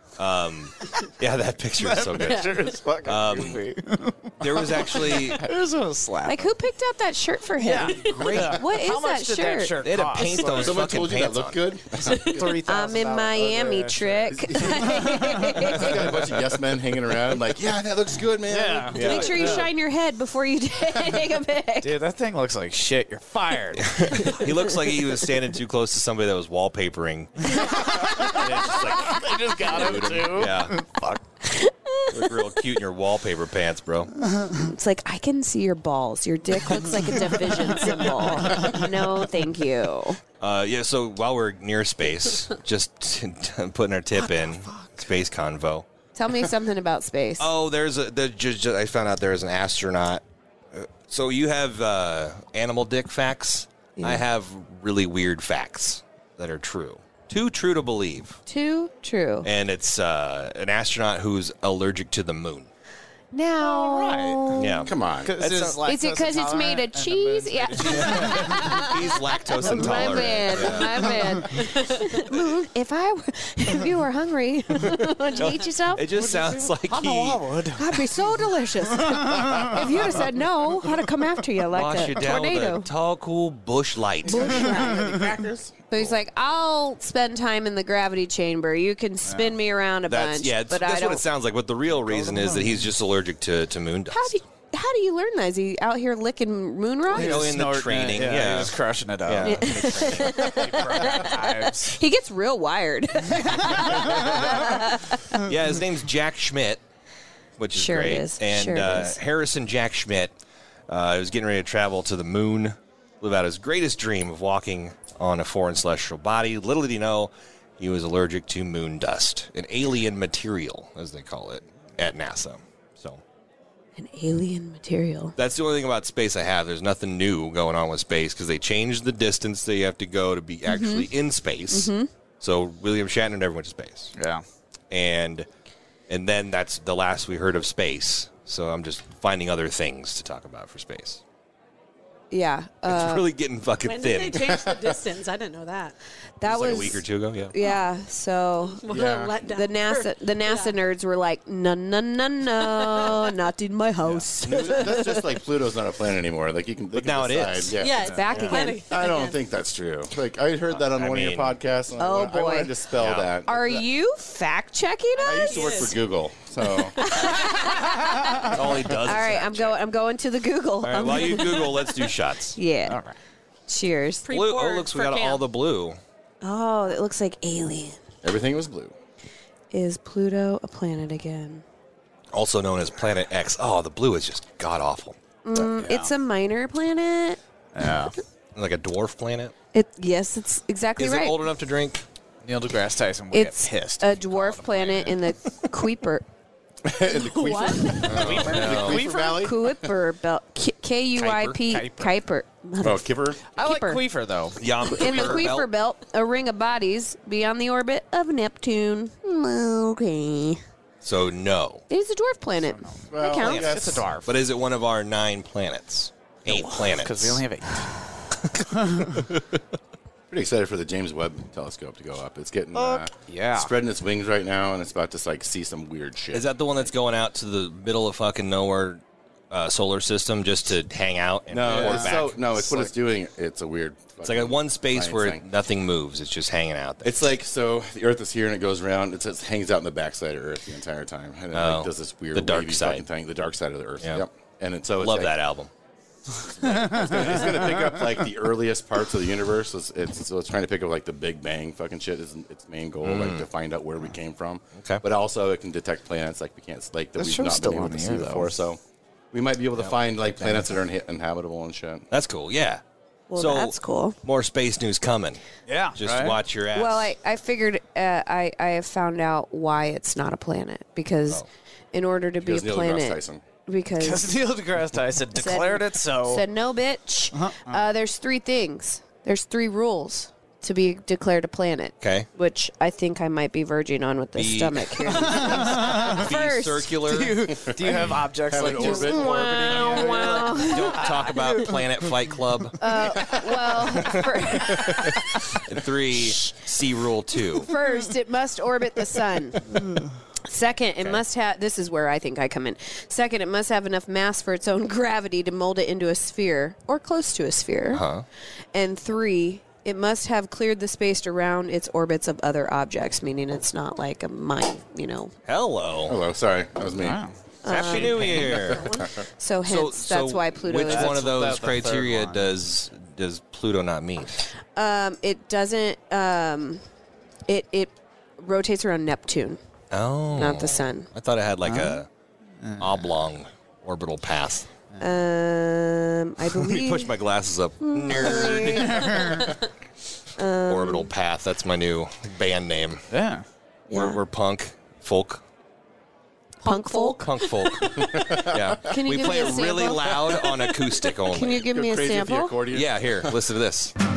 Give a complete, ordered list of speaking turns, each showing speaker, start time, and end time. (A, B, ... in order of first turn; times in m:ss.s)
0:00.2-0:03.6 A
0:01.8-0:06.5 B
0:04.4-0:05.5 A
0:06.3-0:10.3 C
0:07.6-0:10.9 B
0:07.8-0:08.6 A
0:09.8-0:11.6 A
0:10.5-0:12.6 D
0:12.0-0:12.4 E
0:12.1-0:15.8 B
0:12.6-0:16.1 C
0:14.3-0:19.6 D
0:18.5-0:19.7 B
0:18.9-0:19.6 A
0:19.0-0:21.9 C
0:21.8-0:24.4 B
0:23.9-0:30.8 A
0:27.6-0:31.2 B
0:31.4-0:32.4 C
0:32.1-0:34.1 A
0:34.5-0:40.2 C
0:38.4-0:38.7 B
0:40.4-0:45.9 A
0:44.2-0:44.9 B
0:46.1-0:47.5 C
0:47.4-0:50.2 A
0:50.7-0:58.4 A
0:54.0-0:54.2 C
0:58.5-0:59.5 C
0:59.4-1:02.7 A
1:03.3-1:04.9 C
1:03.6-1:08.9 B
1:04.5-1:05.8 A
1:04.9-1:05.4 D
1:05.8-1:16.0 C
1:07.9-1:11.2 A
1:09.6-1:11.4 B
1:15.4-1:17.4 A
1:16.1-1:18.0 B
1:17.8-1:22.9 C
1:19.0-1:19.8 B
1:21.7-1:24.7 A
1:24.2-1:25.8 D
1:24.3-1:25.2 C
1:24.8-1:25.2 B
1:25.9-1:31.2 C
1:29.2-1:29.6 B
1:30.1-1:34.4 A
1:31.9-1:32.9 B
1:34.1-1:37.4 C
1:37.1-1:40.6 A
1:37.1-1:42.0 B
1:39.4-1:45.4 C
1:43.3-1:44.5 B
1:44.0-1:44.6 A
1:45.3-1:46.8 A
1:47.6-1:50.3 A
1:47.8-1:49.2 C
1:50.9-2:03.2 A
2:04.0-2:05.3 C
2:05.4-2:14.1 A
2:10.7-2:11.1 C
2:11.7-2:12.1 C
2:14.2-2:14.4 B
2:14.9-2:15.5 A
2:16.1-2:21.2 A
2:22.3-2:23.3 C
2:22.9-2:24.6 A
2:23.8-2:26.0 E
2:26.4-2:28.8 C
2:26.4-2:27.5 A
2:28.7-2:30.8 E
2:28.9-2:29.3 D
2:29.4-2:35.3 C
2:32.6-2:33.3 E
2:34.4-2:43.8 D
2:36.9-2:37.8 A
2:37.8-2:39.4 E
2:38.1-2:38.8 C
2:40.8-2:41.6 A
2:42.0-2:42.7 C
2:43.0-2:43.3 A
2:43.5-2:45.9 C
2:45.2-2:47.0 D
2:45.3-2:46.0 E
2:46.9-2:51.9 C
2:48.4-2:49.8 A
2:50.8-2:52.6 A
2:52.6-2:53.0 C
2:52.9-2:53.2 B
2:53.7-2:54.3 C
2:54.2-2:55.4 E
2:54.3-2:56.0 A
2:56.4-2:58.0 C
2:58.2-2:58.9 D
2:59.7-3:01.6 C
3:02.3-3:05.2 A
3:05.4-3:07.4 C
3:05.6-3:06.1 B
3:07.7-3:08.1 B
3:08.6-3:09.5 A
3:09.7-3:11.4 C
3:11.0-3:12.0 A
3:12.4-3:15.2 B
3:13.3-3:16.2 C
3:16.8-3:19.9 D
3:17.1-3:24.0 C
3:17.4-3:18.0 E
3:18.0-3:19.0 A
3:18.0-3:19.4 B
3:21.2-3:22.2 B
3:22.8-3:23.4 D
3:23.5-3:24.6 B
3:24.6-3:25.7 A
3:24.9-3:30.6 C
3:31.0-3:31.8 A
3:31.9-3:33.8 C
3:32.6-3:34.4 B
3:33.1-3:34.1 D
3:34.2-3:37.4 A
3:36.5-3:38.1 B
3:38.6-3:39.4 A
3:38.8-3:39.1 B
3:40.3-3:46.9 D
3:42.7-3:43.7 B
3:46.3-3:52.9 A
3:51.5-3:55.4 D
3:51.6-3:52.9 B
3:54.2-3:57.2 A
3:57.0-4:05.3 D
4:01.5-4:03.1 A
4:05.0-4:05.7 A
4:06.3-4:18.8 D
4:06.6-4:08.3 B
4:13.0-4:13.4 A
4:14.8-4:15.0 A
4:17.2-4:18.6 B
4:19.3-4:22.1 D
4:19.8-4:20.6 A
4:22.1-4:22.8 A
4:23.3-4:24.2 C
4:23.4-4:25.4 A
4:25.7-4:26.4 B
4:26.0-4:27.1 A
4:26.7-4:34.4 C
4:32.4-4:33.4 D
4:34.0-4:36.4 B
4:35.4-4:46.9 C
4:37.3-4:37.8 B
4:42.0-4:42.3 A
4:44.4-4:47.5 A
4:45.2-4:46.2 B
4:47.0-4:52.1 B
4:47.6-4:50.5 D
4:48.7-4:51.0 C
4:50.6-4:53.0 A
4:52.8-4:55.3 C
4:54.0-4:57.7 A
4:57.6-4:59.9 C
5:00.4-5:08.0 C
5:07.9-5:08.2 A
5:08.7-5:15.3 C
5:15.5-5:16.2 A
5:16.1-5:17.2 D
5:17.0-5:18.8 B
5:17.6-5:21.2 C
5:17.7-5:18.9 A
5:18.8-5:19.1 D
5:19.6-5:24.4 A
5:20.7-5:22.5 B
5:24.8-5:26.8 C
5:27.5-5:29.6 C
5:29.9-5:32.1 A
5:30.4-5:31.1 C
5:31.6-5:32.0 B
5:32.6-5:33.1 B
5:32.8-5:34.7 A
5:35.0-5:37.1 C
5:36.6-5:39.4 A
5:37.8-5:39.5 C
5:38.6-5:39.6 B
5:40.4-5:41.1 C
5:40.7-5:43.0 A
5:43.1-5:43.4 B
5:43.9-5:44.2 C
5:43.9-5:45.4 A
5:46.6-5:48.1 E
5:46.6-5:47.3 C
5:46.9-5:51.6 A
5:48.0-5:48.7 D
5:48.9-5:50.5 C
5:51.3-5:52.6 C
5:51.6-5:53.3 D
5:52.7-5:53.9 A